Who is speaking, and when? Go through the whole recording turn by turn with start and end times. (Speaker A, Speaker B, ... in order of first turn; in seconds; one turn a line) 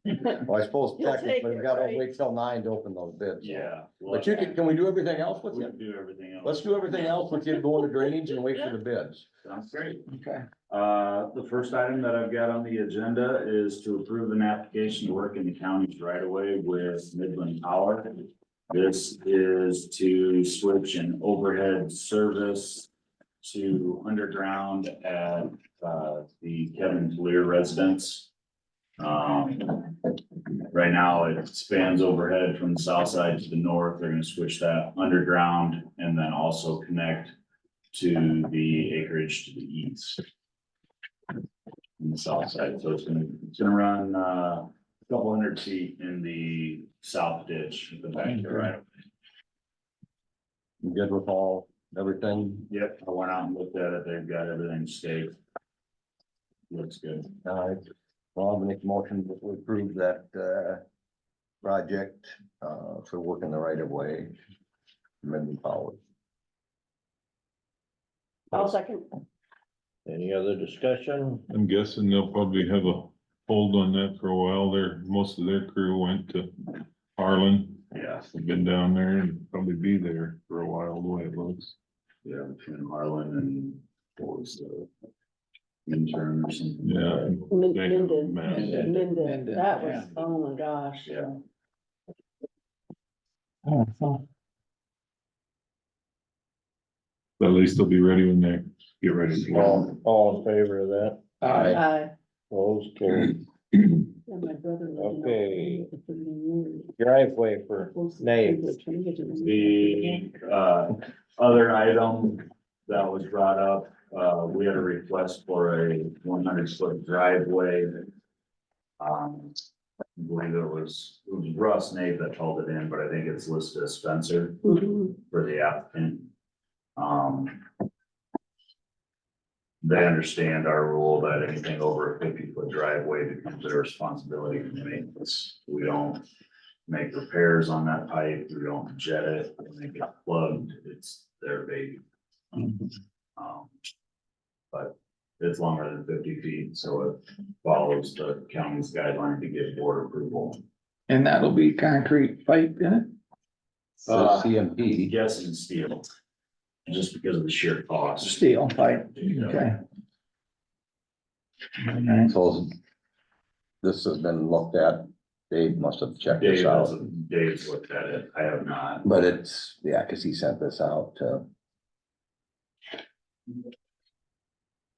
Speaker A: 0.4-5.7
Speaker B: 1.0-2.1
Speaker C: 3.4-4.6
Speaker C: 5.5-7.1
Speaker A: 6.4-9.2
Speaker C: 9.4-10.0
Speaker C: 10.7-22.9
Speaker C: 23.4-28.3
Speaker C: 29.0-29.9
Speaker C: 30.7-37.3
Speaker C: 37.9-40.2
Speaker C: 42.0-48.8
Speaker A: 50.8-52.7
Speaker C: 52.7-55.4
Speaker C: 56.7-57.3
Speaker A: 57.4-57.8
Speaker A: 58.3-60.8
Speaker A: 61.6-64.3
Speaker A: 65.2-66.0
Speaker B: 68.5-69.0
Speaker D: 70.0-71.5
Speaker E: 71.5-81.7
Speaker C: 77.9-78.2
Speaker C: 82.2-84.9
Speaker C: 85.8-87.3
Speaker E: 86.8-89.7
Speaker B: 87.5-91.2
Speaker C: 91.0-91.3
Speaker E: 97.4-99.9
Speaker D: 99.5-101.7
Speaker E: 101.4-101.8
Speaker B: 101.6-102.1
Speaker D: 102.5-103.4
Speaker B: 104.3-106.9
Speaker D: 105.0-105.9
Speaker D: 107.0-108.7
Speaker B: 107.8-110.2
Speaker C: 109.4-118.1
Speaker C: 119.0-119.6
Speaker C: 120.2-124.6
Speaker B: 124.6-125.1
Speaker C: 125.2-126.3
Speaker C: 127.0-127.6
Speaker C: 129.8-136.2
Speaker C: 136.9-142.0
Speaker C: 143.4-143.7
Speaker C: 144.7-150.6
Speaker F: 151.1-153.1
Speaker C: 154.0-156.1
Speaker A: 154.1-155.2
Speaker C: 156.9-159.7
Speaker F: 158.4-159.8
Speaker F: 161.9-162.3
Speaker A: 162.2-162.7
Speaker A: 163.8-166.9
Speaker C: 166.4-169.1
Speaker A: 169.0-171.4